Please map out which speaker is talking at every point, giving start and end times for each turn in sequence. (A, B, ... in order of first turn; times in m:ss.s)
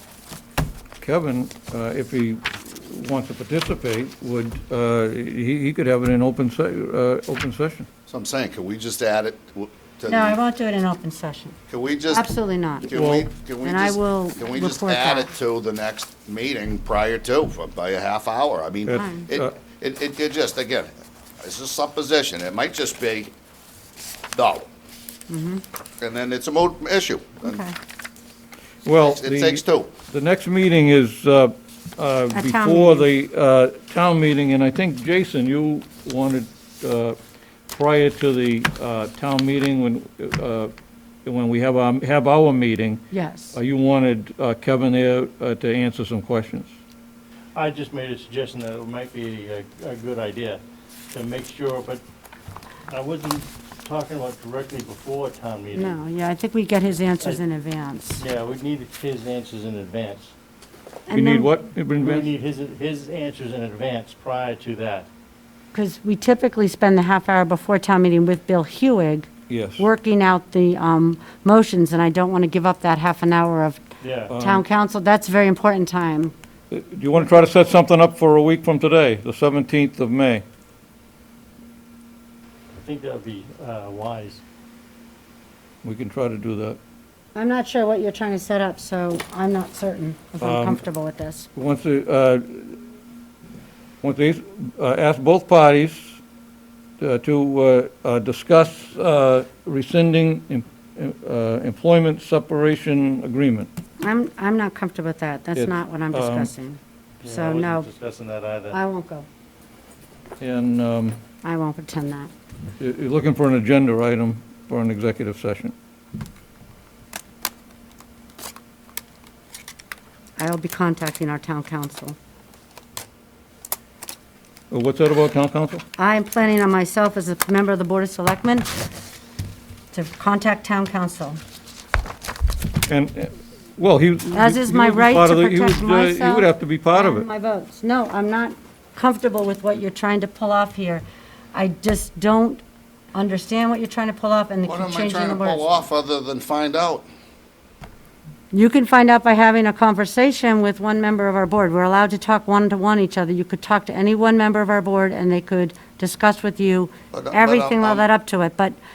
0:01.0-0:07.9 A
0:08.1-0:10.4 B
0:10.1-0:11.6 C
0:11.7-0:12.3 B
0:12.1-0:12.9 C
0:12.8-0:20.9 B
0:13.0-0:13.3 A
0:13.6-0:15.3 C
0:18.9-0:19.3 C
0:21.4-0:23.3 B
0:24.3-0:24.7 B
0:25.3-0:25.6 C
0:26.0-0:27.6 B
0:27.4-0:27.8 C
0:28.9-0:37.2 A
0:29.0-0:29.9 B
0:32.3-0:33.1 C
0:37.7-0:40.7 A
0:41.2-0:46.7 A
0:43.1-0:43.6 C
0:47.6-0:52.0 D
0:52.9-0:56.0 D
0:55.7-0:58.2 C
0:58.2-1:00.3 D
1:01.1-1:01.6 C
1:01.1-1:02.3 A
1:01.9-1:05.1 D
1:05.7-1:16.3 C
1:09.5-1:09.8 A
1:14.0-1:14.4 D
1:14.3-1:14.6 A
1:16.7-1:20.4 A
1:22.8-1:24.4 D
1:25.8-1:26.8 A
1:27.4-1:31.5 C
1:30.4-1:30.8 A
1:31.6-1:32.8 A
1:34.0-1:36.2 A
1:37.0-1:43.7 A
1:44.0-1:47.9 C
1:45.6-1:46.5 A
1:47.2-1:48.8 D
1:48.7-1:49.3 C
1:50.4-1:51.2 A
1:51.4-1:52.3 C
1:52.8-1:55.7 A
2:00.4-2:02.2 C
2:04.7-2:05.8 A
2:06.0-2:08.7 C
2:09.9-2:11.4 C
2:12.9-2:17.2 A
2:14.3-2:22.6 C
2:23.1-2:25.6 C
2:24.7-2:27.1 B
2:28.5-2:38.8 C
2:37.1-2:38.1 B